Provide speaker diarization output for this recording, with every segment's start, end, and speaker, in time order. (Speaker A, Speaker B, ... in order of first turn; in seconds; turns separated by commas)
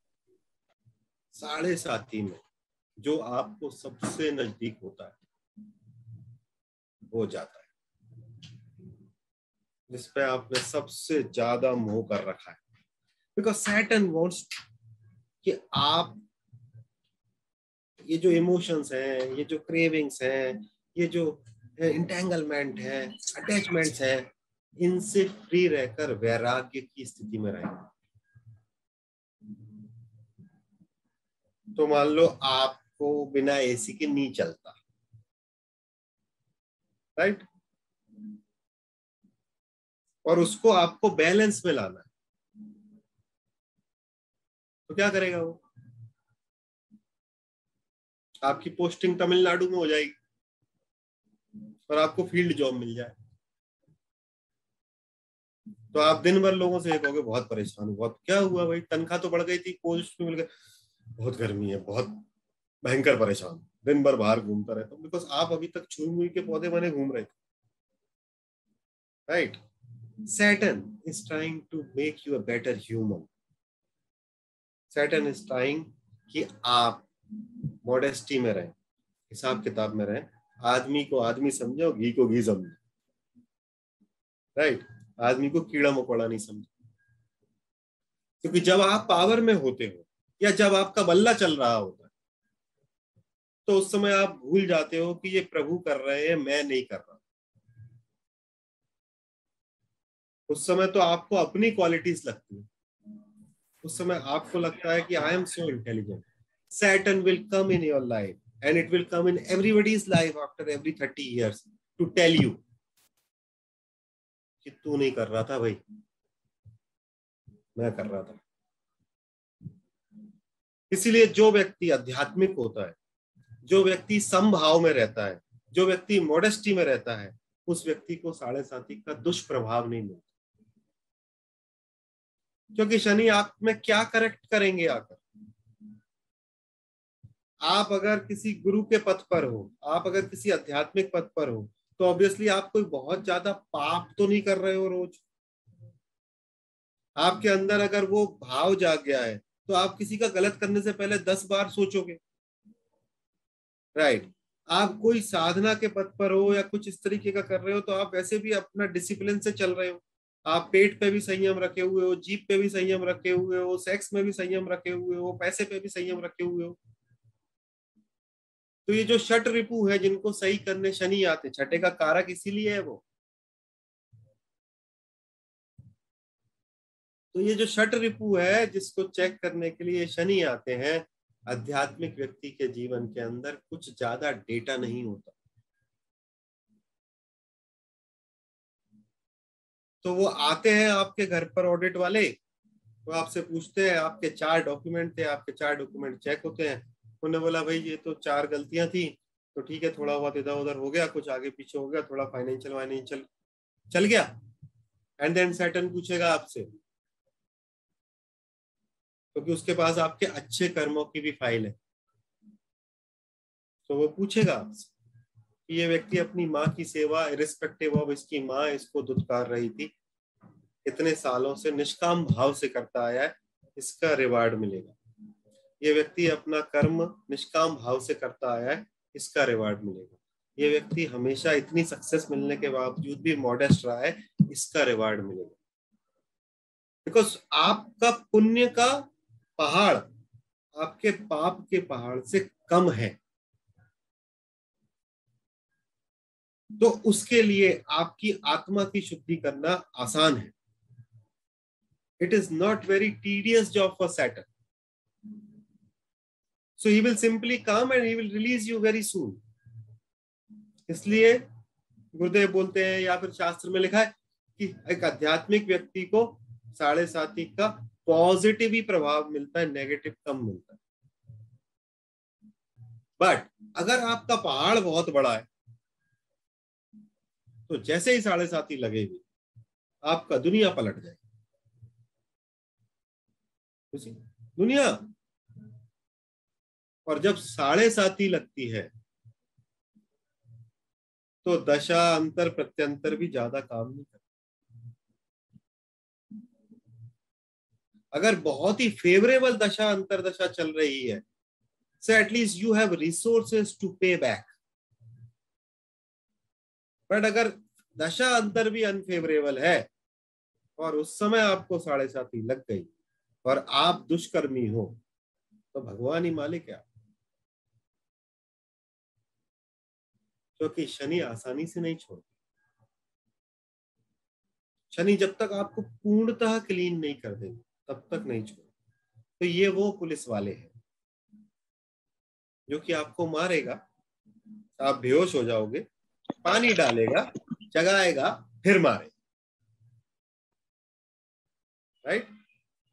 Speaker A: 1.3-2.4, Speaker A: 3.0-5.2, Speaker A: 7.1-7.7, Speaker A: 9.9-12.6, Speaker A: 13.3-14.5, Speaker A: 15.4-16.2, Speaker A: 18.1-27.9, Speaker A: 31.7-34.8, Speaker A: 37.2-37.5, Speaker A: 40.2-42.1, Speaker A: 44.9-45.6, Speaker A: 48.4-50.1, Speaker A: 51.9-53.1, Speaker A: 55.9-60.5, Speaker A: 61.2-62.2, Speaker A: 62.8-67.3, Speaker A: 69.3-69.6, Speaker A: 70.3-73.3, Speaker A: 74.9-77.1, Speaker A: 77.8-78.7, Speaker A: 79.3-82.8, Speaker A: 84.6-86.7, Speaker A: 88.4-92.1, Speaker A: 93.7-97.2, Speaker A: 100.5-102.7, Speaker A: 103.8-112.6, Speaker A: 114.6-115.8, Speaker A: 117.8-118.4, Speaker A: 120.9-123.0, Speaker A: 123.6-130.3, Speaker A: 132.7-135.2, Speaker A: 137.7-145.2, Speaker A: 147.2-152.2, Speaker A: 153.9-166.8, Speaker A: 168.8-173.0, Speaker A: 177.3-185.3, Speaker A: 190.0-192.4, Speaker A: 193.1-203.2, Speaker A: 203.9-204.3, Speaker A: 205.2-206.7, Speaker A: 209.3-211.8, Speaker A: 213.9-214.9, Speaker A: 215.7-219.9, Speaker A: 220.8-224.9, Speaker A: 225.8-235.6, Speaker A: 237.1-240.0, Speaker A: 240.8-243.2, Speaker A: 246.8-250.5, Speaker A: 252.2-254.5, Speaker A: 256.8-259.4, Speaker A: 260.9-261.4, Speaker A: 262.1-270.8, Speaker A: 273.2-275.5, Speaker A: 277.7-279.2, Speaker A: 280.1-281.2, Speaker A: 283.9-285.1, Speaker A: 287.1-288.9, Speaker A: 291.4-294.2, Speaker A: 298.1-301.2, Speaker A: 302.0-304.5, Speaker A: 307.1-309.9, Speaker A: 310.8-312.9, Speaker A: 313.4-315.0, Speaker A: 315.7-316.8, Speaker A: 320.6-322.3, Speaker A: 324.9-328.7, Speaker A: 329.4-330.7, Speaker A: 332.7-333.8, Speaker A: 334.8-335.9, Speaker A: 336.4-339.1